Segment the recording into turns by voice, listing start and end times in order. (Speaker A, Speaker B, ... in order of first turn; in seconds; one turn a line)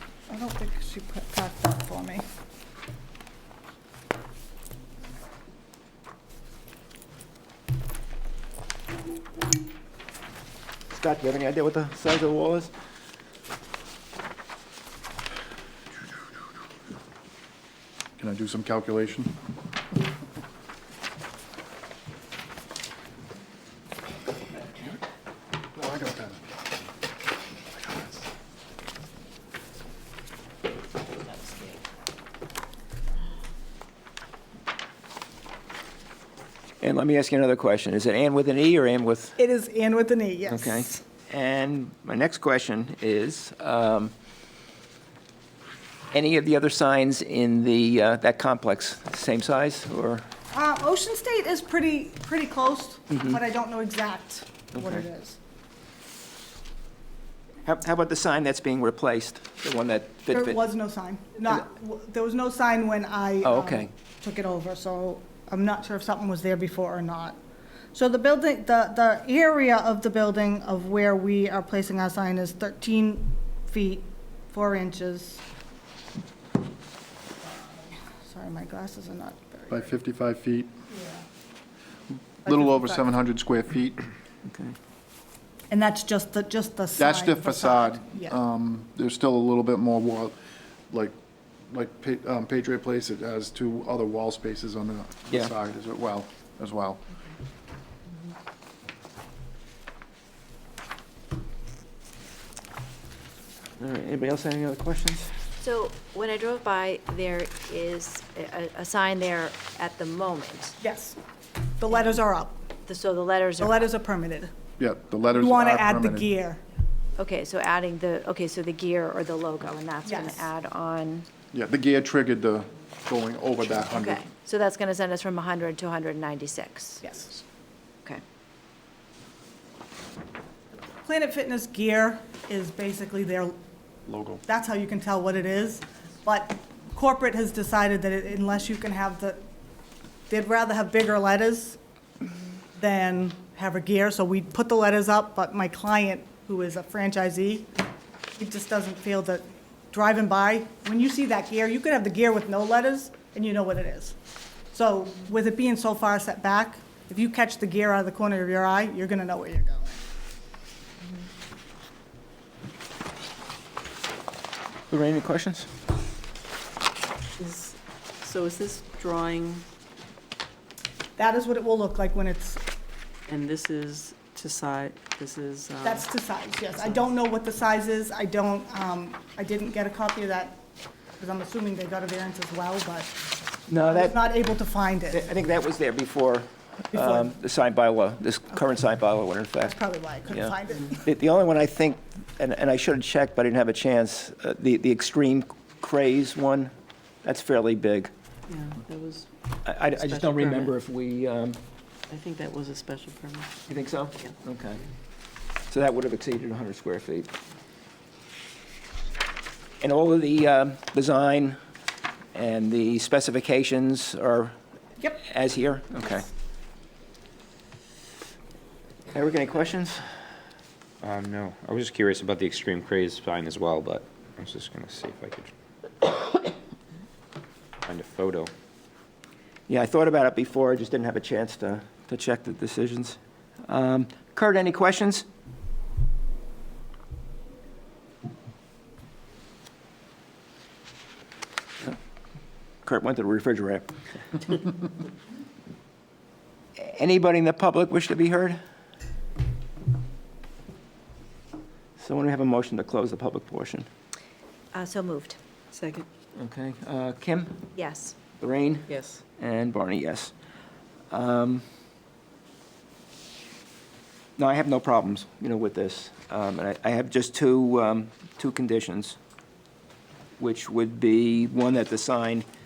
Speaker A: 0.3-2.2
Speaker B: 10.9-12.7
Speaker C: 18.2-19.3
Speaker C: 25.8-26.4
Speaker B: 36.8-39.4
Speaker A: 39.4-40.9
Speaker B: 40.5-44.1
Speaker B: 46.1-50.3
Speaker A: 50.5-55.4
Speaker B: 53.1-53.4
Speaker B: 54.7-55.0
Speaker B: 57.6-60.6
Speaker A: 60.3-67.4
Speaker B: 63.4-63.9
Speaker A: 67.9-75.4
Speaker A: 77.9-79.9
Speaker C: 79.7-80.7
Speaker A: 80.9-81.2
Speaker C: 82.4-84.1
Speaker A: 82.5-83.1
Speaker B: 84.5-84.8
Speaker A: 85.7-88.4
Speaker C: 87.0-90.4
Speaker C: 90.9-91.2
Speaker C: 91.7-97.0
Speaker B: 103.8-105.3
Speaker D: 105.6-110.8
Speaker A: 110.8-111.2
Speaker A: 111.8-112.6
Speaker D: 112.9-113.9
Speaker A: 113.6-114.5
Speaker C: 114.8-116.3
Speaker A: 115.3-116.6
Speaker D: 117.2-121.3
Speaker A: 120.0-120.5
Speaker C: 121.5-124.2
Speaker D: 123.8-127.0
Speaker A: 127.0-127.4
Speaker A: 131.0-133.6
Speaker C: 134.1-134.4
Speaker A: 134.5-139.4
Speaker A: 140.3-141.8
Speaker A: 142.8-147.7
Speaker A: 148.4-154.2
Speaker A: 154.7-160.0
Speaker B: 164.9-165.7
Speaker E: 167.4-169.6
Speaker A: 171.2-172.6
Speaker E: 173.3-176.1
Speaker A: 175.8-180.6
Speaker A: 181.2-183.1
Speaker B: 183.7-184.3
Speaker A: 183.8-185.3
Speaker B: 185.1-189.8
Speaker A: 186.9-187.3
Speaker A: 189.6-191.1
Speaker B: 190.3-196.7
Speaker B: 197.2-198.1
Speaker E: 198.5-199.3
Speaker B: 199.6-201.6
Speaker E: 199.8-200.7
Speaker E: 202.1-204.3
Speaker B: 203.7-204.8
Speaker B: 205.7-207.3
Speaker B: 209.8-211.6
Speaker B: 212.3-214.5
Speaker B: 215.1-216.3
Speaker B: 219.1-220.0
Speaker F: 221.0-225.5
Speaker F: 227.9-228.5
Speaker B: 229.7-235.2
Speaker B: 242.8-243.9
Speaker B: 246.8-248.6
Speaker B: 252.0-253.9
Speaker D: 254.7-255.4
Speaker E: 255.7-256.1
Speaker B: 256.4-257.6
Speaker D: 257.7-258.2
Speaker B: 258.4-260.3
Speaker E: 258.9-259.2
Speaker B: 261.1-261.6
Speaker B: 264.4-269.2
Speaker B: 270.4-272.5